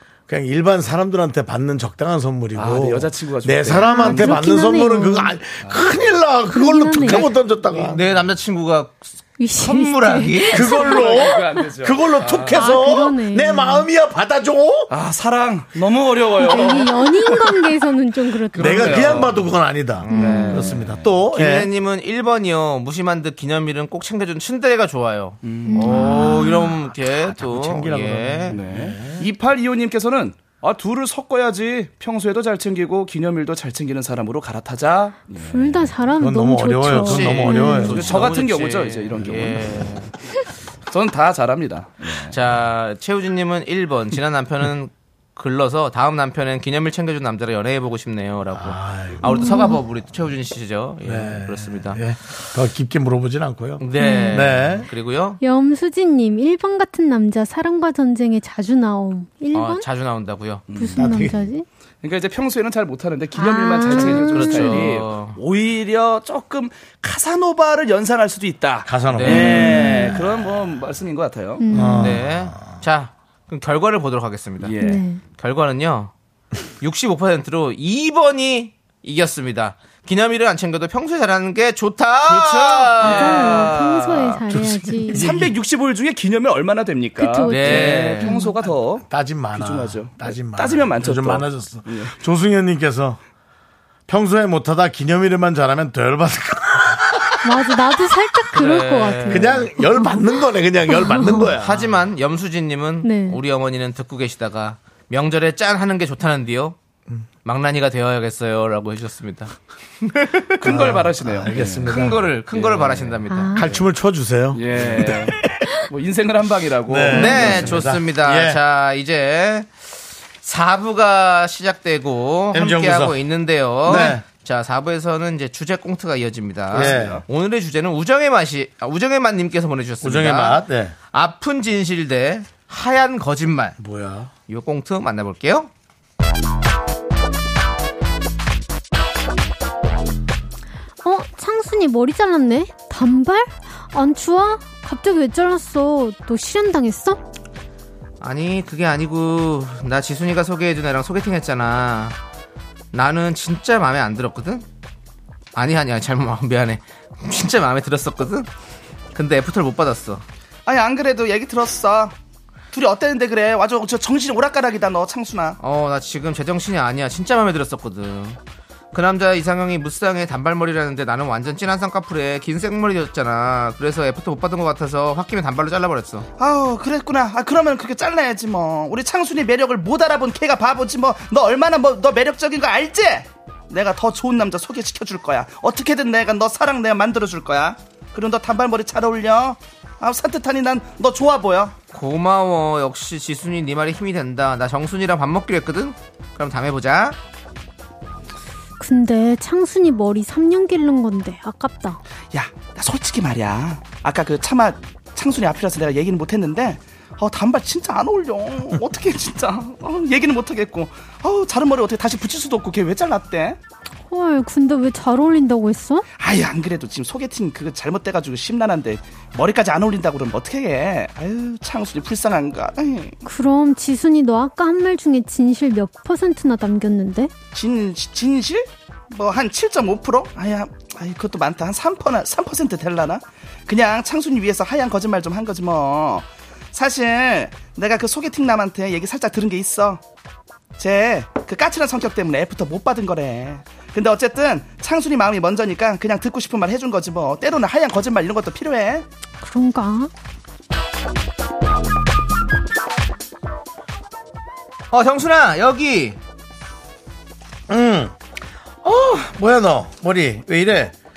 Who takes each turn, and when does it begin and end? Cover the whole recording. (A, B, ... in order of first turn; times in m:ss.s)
0:00.3-0:08.0 A
0:02.6-0:04.4 B
0:03.7-0:05.4 C
0:05.6-0:05.9 B
0:06.5-0:07.3 C
0:07.1-0:10.9 D
0:09.4-0:11.6 C
0:10.5-0:14.9 A
0:10.8-0:12.8 B
0:12.5-0:13.9 C
0:14.9-0:17.6 B
0:16.4-0:19.3 C
0:18.5-0:19.5 B
0:18.6-0:21.7 A
0:20.0-0:20.7 D
0:20.1-0:20.7 C
0:20.2-0:21.2 B
0:21.3-0:28.6 D
0:25.4-0:26.2 B
0:25.7-0:26.7 C
0:26.3-0:29.3 A
0:28.5-0:35.9 B
0:35.3-0:38.1 C
0:36.2-0:38.3 A
0:37.0-0:40.1 D
0:37.7-0:39.6 B
0:40.9-0:42.4 B
0:42.2-0:52.0 D
0:48.5-0:49.8 A
0:49.2-0:49.8 C
0:51.0-0:54.9 A
0:53.8-0:55.4 D
0:54.0-0:54.6 C
0:55.4-0:59.8 C
0:59.5-1:00.6 D
1:00.7-1:01.2 B
1:00.8-1:01.7 C
1:01.0-1:01.5 A
1:02.0-1:11.6 B
1:03.4-1:04.9 C
1:03.9-1:05.4 D
1:08.8-1:10.5 A
1:09.1-1:09.8 D
1:09.8-1:10.1 C
1:11.6-1:12.2 C
1:11.7-1:12.6 A
1:11.9-1:14.8 D
1:14.6-1:15.0 B
1:14.8-1:15.2 C
1:15.4-1:16.1 D
1:16.8-1:23.8 D
1:22.3-1:23.1 A
1:22.4-1:24.3 B
1:23.0-1:25.3 C
1:24.5-1:25.5 A
1:25.2-1:32.2 B
1:27.2-1:28.6 C
1:27.5-1:28.4 D
1:29.0-1:33.2 A
1:34.1-1:37.6 A
1:37.4-1:41.5 C
1:38.5-1:39.6 D
1:39.3-1:41.9 A
1:41.6-1:46.8 D
1:43.0-1:43.4 C
1:47.4-1:50.6 D
1:50.6-1:53.2 B
1:50.6-1:52.3 A
1:51.8-1:53.6 D
1:53.3-1:53.8 C
1:53.6-1:55.7 A
1:54.5-1:57.8 B
1:56.8-1:58.6 A
1:57.1-1:59.7 D
2:00.4-2:13.8 D
2:02.5-2:03.2 A
2:03.9-2:04.2 A
2:06.7-2:07.2 B
2:06.7-2:07.2 A
2:10.0-2:11.0 A
2:13.8-2:14.3 A
2:14.5-2:15.7 D
2:21.0-2:27.2 C
2:28.2-2:32.2 D
2:32.9-2:34.6 D
2:35.6-2:38.5 D
2:39.1-2:40.2 D
2:40.7-2:42.1 B
2:42.7-2:45.6 B
2:45.6-2:48.4 D
2:48.9-2:56.3 D
2:56.4-3:11.8 B
3:11.9-3:17.2 D
3:18.8-3:22.0 C
3:22.3-3:33.6 B
3:34.1-3:36.1 C
3:36.2-3:43.2 B
3:43.2-3:47.3 C
3:47.5-4:00.0 B
4:00.8-4:09.1 B
4:09.4-4:10.1 C
4:14.9-4:16.2 D
4:17.7-4:18.2 A
4:18.8-4:20.9 A